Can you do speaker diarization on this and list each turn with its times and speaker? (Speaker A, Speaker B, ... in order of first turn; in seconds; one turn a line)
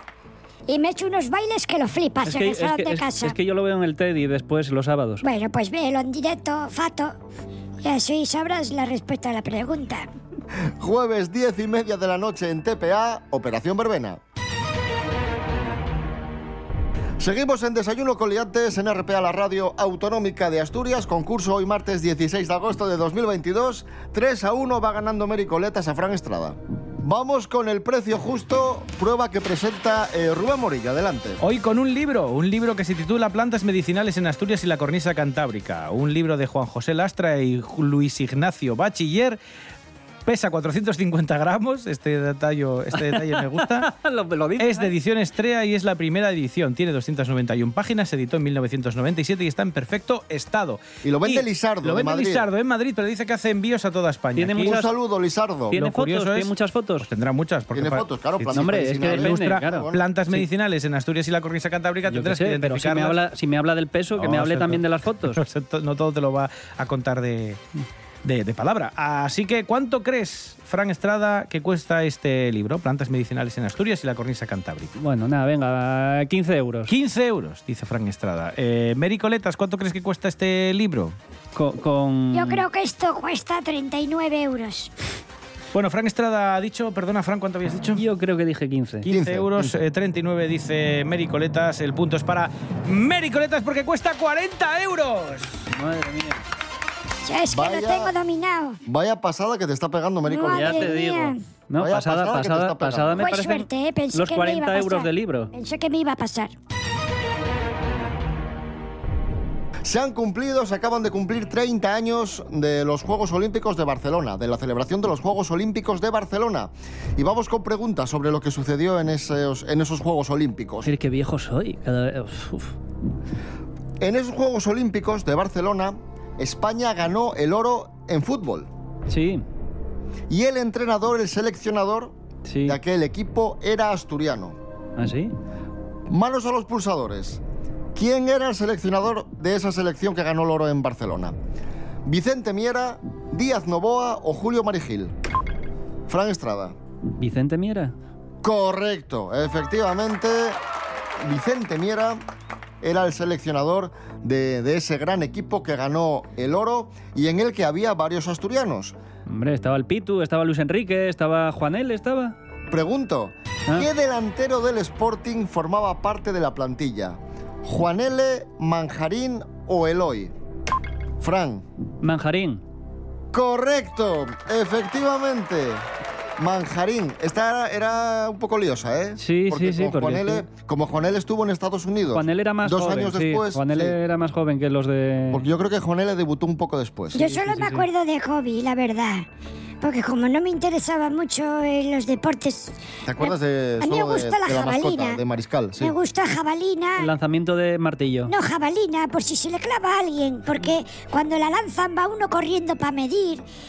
Speaker A: 0.7-3.3
Speaker B: 2.2-5.2
Speaker A: 5.2-7.1
Speaker A: 7.8-10.1
Speaker C: 10.8-14.2
Speaker C: 17.2-31.4
Speaker D: 31.4-39.4
Speaker D: 40.2-43.9
Speaker B: 43.0-44.9
Speaker D: 44.6-54.8
Speaker C: 51.0-52.5
Speaker B: 54.4-54.9
Speaker C: 54.6-55.9
Speaker B: 55.7-57.1
Speaker D: 55.8-63.2
Speaker C: 57.7-60.0
Speaker B: 58.5-60.4
Speaker B: 62.1-65.4
Speaker D: 64.2-67.6
Speaker D: 68.2-74.9
Speaker B: 75.0-76.9
Speaker D: 76.9-81.2
Speaker B: 81.5-82.6
Speaker A: 82.3-84.9
Speaker D: 85.7-88.0
Speaker B: 87.9-89.1
Speaker C: 89.1-89.7
Speaker D: 89.1-95.6
Speaker B: 95.7-96.4
Speaker A: 97.2-98.8
Speaker C: 97.5-98.1
Speaker C: 98.8-101.0
Speaker A: 100.2-101.4
Speaker B: 100.5-105.5
Speaker C: 101.8-103.3
Speaker A: 103.2-106.5
Speaker C: 109.8-120.9
Speaker B: 120.8-122.8
Speaker C: 124.0-128.7
Speaker B: 129.1-129.4
Speaker C: 130.3-134.6
Speaker B: 132.5-132.8
Speaker B: 135.0-135.3
Speaker C: 136.1-137.4
Speaker C: 137.9-141.3
Speaker C: 142.0-145.1
Speaker C: 146.1-146.8
Speaker B: 147.2-147.9
Speaker C: 148.4-150.6
Speaker C: 151.2-152.2
Speaker C: 152.8-159.0
Speaker B: 159.2-162.3
Speaker C: 162.7-170.3
Speaker C: 171.2-171.6
Speaker B: 172.0-172.6
Speaker C: 173.3-183.9
Speaker B: 179.2-180.5
Speaker B: 182.1-185.4
Speaker C: 185.3-187.3
Speaker A: 187.1-189.3
Speaker B: 187.2-187.9
Speaker A: 189.8-195.2
Speaker C: 193.0-195.9
Speaker A: 195.8-197.1
Speaker B: 197.0-198.3
Speaker A: 198.3-203.4